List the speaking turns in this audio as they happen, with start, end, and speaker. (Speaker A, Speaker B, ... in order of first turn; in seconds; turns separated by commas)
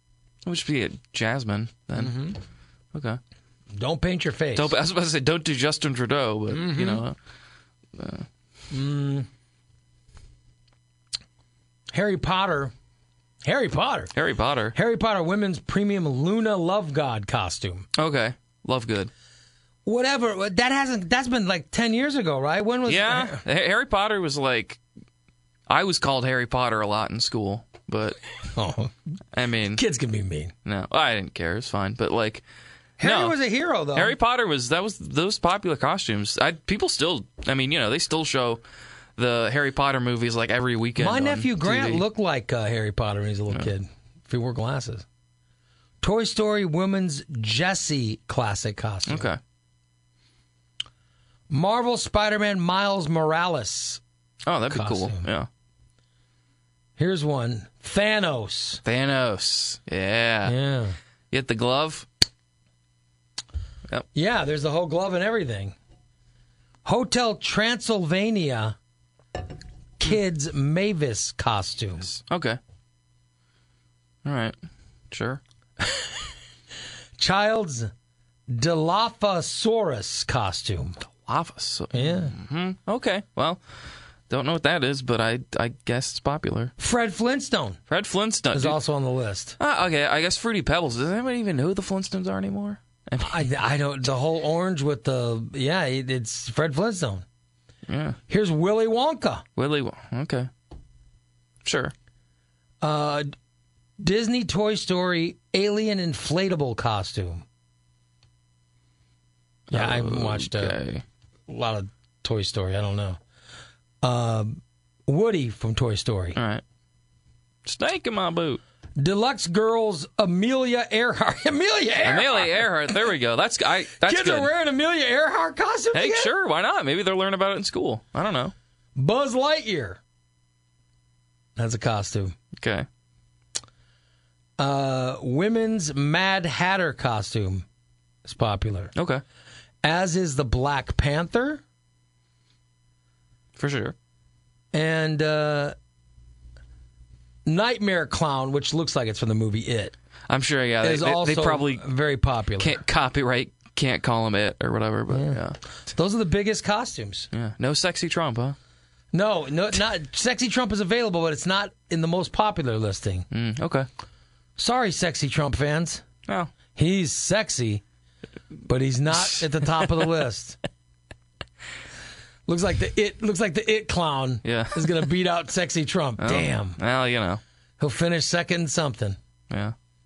Speaker A: 0.4-2.1, Speaker B: 1.9-2.4, Speaker A: 2.9-3.2, Speaker B: 3.7-4.8, Speaker A: 4.5-7.2, Speaker B: 6.5-7.0, Speaker A: 8.0-8.2, Speaker B: 8.7-9.3, Speaker B: 11.9-12.7, Speaker B: 13.4-14.1, Speaker A: 14.1-14.7, Speaker B: 14.7-17.9, Speaker A: 17.9-19.1, Speaker B: 19.8-23.4, Speaker A: 22.9-24.8, Speaker A: 25.7-28.2, Speaker B: 28.5-28.9, Speaker A: 29.3-29.8, Speaker B: 29.7-30.5, Speaker A: 30.6-32.4, Speaker B: 33.0-34.1, Speaker A: 33.0-33.4, Speaker A: 33.9-38.6, Speaker A: 39.2-42.0, Speaker B: 41.0-45.0, Speaker B: 46.0-49.3, Speaker A: 49.1-49.4, Speaker B: 51.5-54.0, Speaker A: 54.5-55.5, Speaker B: 54.7-55.3, Speaker B: 57.0-58.8, Speaker A: 58.8-60.5, Speaker B: 60.4-61.0, Speaker A: 61.3-62.0, Speaker B: 64.1-65.8, Speaker B: 66.8-68.8, Speaker B: 70.0-72.1, Speaker A: 72.1-72.6, Speaker A: 74.2-74.5, Speaker A: 75.1-75.4, Speaker B: 77.2-77.9, Speaker B: 78.5-81.0, Speaker A: 81.0-83.6, Speaker B: 81.9-82.3, Speaker A: 84.3-86.7, Speaker B: 86.8-87.8, Speaker A: 87.9-88.8, Speaker B: 88.5-89.6, Speaker A: 89.6-93.4, Speaker B: 93.2-97.2, Speaker A: 97.9-98.2, Speaker B: 98.3-99.4, Speaker A: 99.5-100.5, Speaker A: 101.6-101.9, Speaker B: 102.8-103.3, Speaker B: 104.0-107.4, Speaker A: 109.7-111.0, Speaker B: 109.7-110.8, Speaker B: 111.5-113.2, Speaker B: 114.0-116.4, Speaker A: 116.3-116.6, Speaker A: 117.6-118.6, Speaker B: 119.0-123.0, Speaker A: 122.0-124.5, Speaker B: 124.0-126.3, Speaker A: 125.9-128.5, Speaker B: 128.9-130.0, Speaker B: 131.6-132.3, Speaker A: 132.6-132.9, Speaker B: 134.6-137.6, Speaker B: 138.2-138.9, Speaker A: 138.9-139.2, Speaker B: 139.8-141.6, Speaker A: 143.6-143.9, Speaker B: 144.7-145.7, Speaker B: 147.4-149.9, Speaker A: 150.3-151.8, Speaker B: 150.8-152.8, Speaker A: 152.6-155.6, Speaker B: 155.1-157.3, Speaker A: 157.3-158.6, Speaker B: 159.1-163.3, Speaker A: 163.3-163.9, Speaker B: 164.6-166.0, Speaker A: 166.3-166.5, Speaker B: 166.7-167.8, Speaker B: 168.6-170.6, Speaker B: 172.5-176.8, Speaker A: 174.4-175.0, Speaker A: 176.2-177.4, Speaker B: 177.8-179.2, Speaker A: 179.5-179.7